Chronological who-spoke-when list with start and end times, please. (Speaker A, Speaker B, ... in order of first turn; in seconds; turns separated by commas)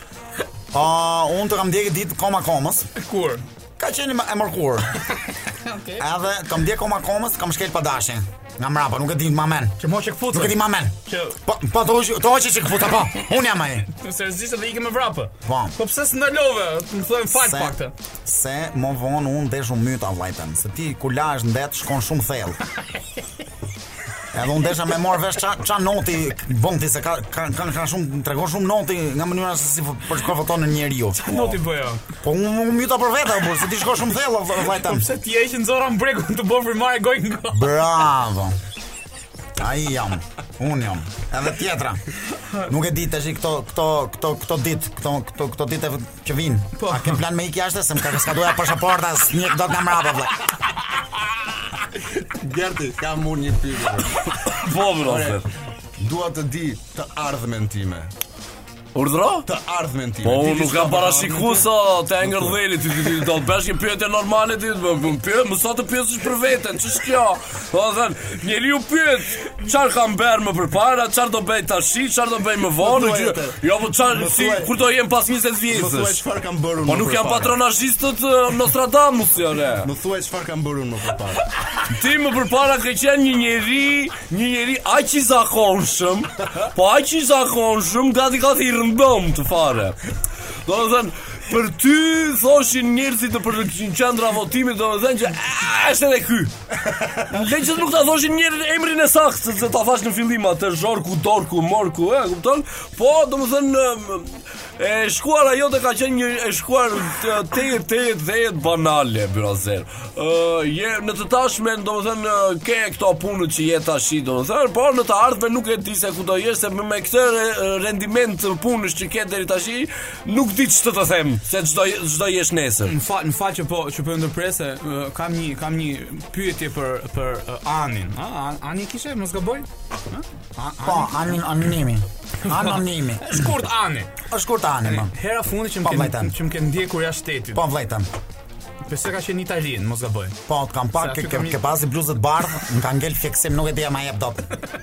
Speaker A: 0.7-2.9, Speaker B: 3.0-3.4, Speaker A: 3.8-4.9, Speaker B: 5.6-6.0, Speaker A: 6.0-9.8, Speaker B: 9.8-11.4, Speaker A: 10.3-13.9, Speaker B: 13.9-17.9, Speaker A: 15.4-15.8, Speaker A: 17.4-22.6, Speaker A: 24.3-31.6, Speaker B: 31.2-32.0, Speaker A: 32.2-35.0, Speaker B: 34.7-37.8, Speaker A: 37.5-38.6, Speaker A: 39.6-42.0, Speaker A: 42.6-50.4, Speaker B: 46.8-47.2, Speaker C: 52.2-54.4, Speaker D: 54.6-55.5, Speaker C: 55.0-55.5, Speaker C: 56.0-58.1, Speaker D: 59.0-59.5, Speaker C: 59.5-61.6, Speaker D: 60.2-76.2, Speaker C: 62.2-62.5, Speaker C: 72.8-74.7, Speaker C: 75.7-77.5, Speaker D: 76.8-79.9, Speaker C: 79.8-81.5, Speaker D: 81.8-90.0, Speaker D: 90.7-96.5, Speaker D: 97.1-123.0, Speaker B: 122.9-131.4, Speaker A: 130.8-133.4, Speaker B: 132.5-134.1, Speaker A: 134.3-135.1, Speaker B: 134.9-137.6, Speaker A: 135.8-136.3, Speaker A: 137.6-138.1, Speaker B: 138.9-140.4, Speaker A: 140.5-144.5, Speaker B: 141.0-141.6